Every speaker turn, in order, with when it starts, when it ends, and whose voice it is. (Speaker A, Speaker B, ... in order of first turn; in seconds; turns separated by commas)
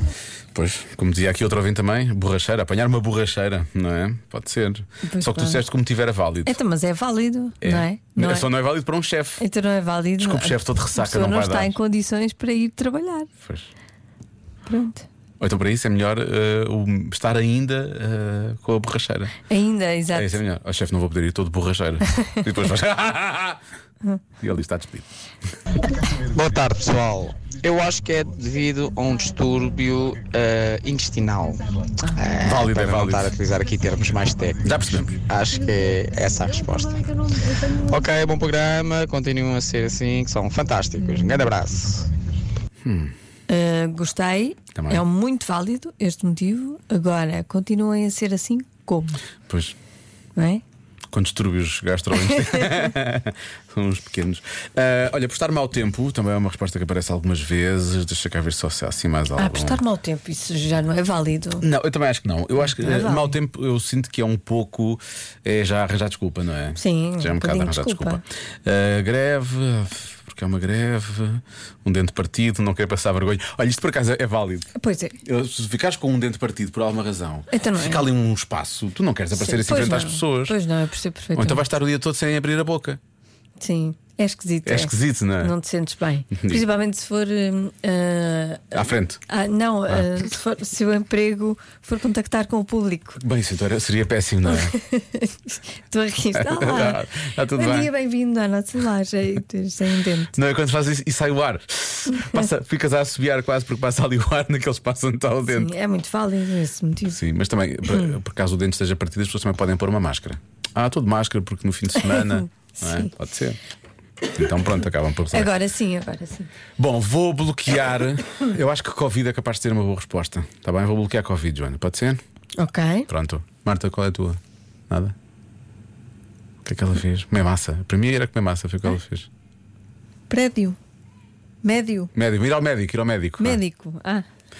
Speaker A: 0.5-6.6, Speaker B: 5.0-5.6, Speaker B: 6.5-8.4, Speaker A: 7.6-9.4, Speaker B: 9.4-13.3, Speaker A: 10.2-11.7, Speaker A: 13.4-13.7, Speaker B: 14.7-15.1, Speaker A: 15.4-19.3, Speaker B: 19.5-20.4, Speaker A: 20.1-23.6, Speaker A: 24.4-25.1, Speaker C: 26.3-31.6, Speaker C: 32.1-34.6, Speaker A: 32.4-33.3, Speaker A: 34.6-35.2, Speaker C: 35.2-42.1, Speaker A: 42.8-43.1, Speaker B: 43.5-49.2, Speaker A: 44.7-45.0, Speaker A: 49.5-49.7, Speaker B: 50.4-50.6, Speaker A: 51.1-59.8, Speaker B: 59.4-61.6, Speaker A: 61.6-74.7, Speaker B: 62.8-63.3, Speaker B: 66.8-68.2, Speaker B: 74.7-75.2, Speaker A: 75.2-80.6, Speaker B: 77.5-78.0, Speaker B: 79.3-81.6, Speaker A: 81.3-83.0, Speaker B: 83.6-93.2, Speaker A: 84.7-85.5, Speaker A: 86.3-86.6, Speaker A: 88.7-89.2, Speaker A: 93.2-94.7, Speaker B: 94.5-97.0, Speaker A: 96.3-97.9, Speaker B: 97.6-100.3, Speaker A: 100.3-105.7, Speaker B: 105.5-107.2, Speaker A: 107.1-113.6, Speaker B: 112.8-113.1, Speaker A: 114.3-115.5, Speaker B: 115.3-116.5, Speaker A: 116.8-122.2, Speaker B: 122.6-123.1, Speaker A: 123.1-124.4, Speaker A: 126.6-129.3, Speaker B: 130.3-130.8, Speaker B: 131.6-132.1, Speaker A: 132.1-133.6, Speaker B: 133.4-134.2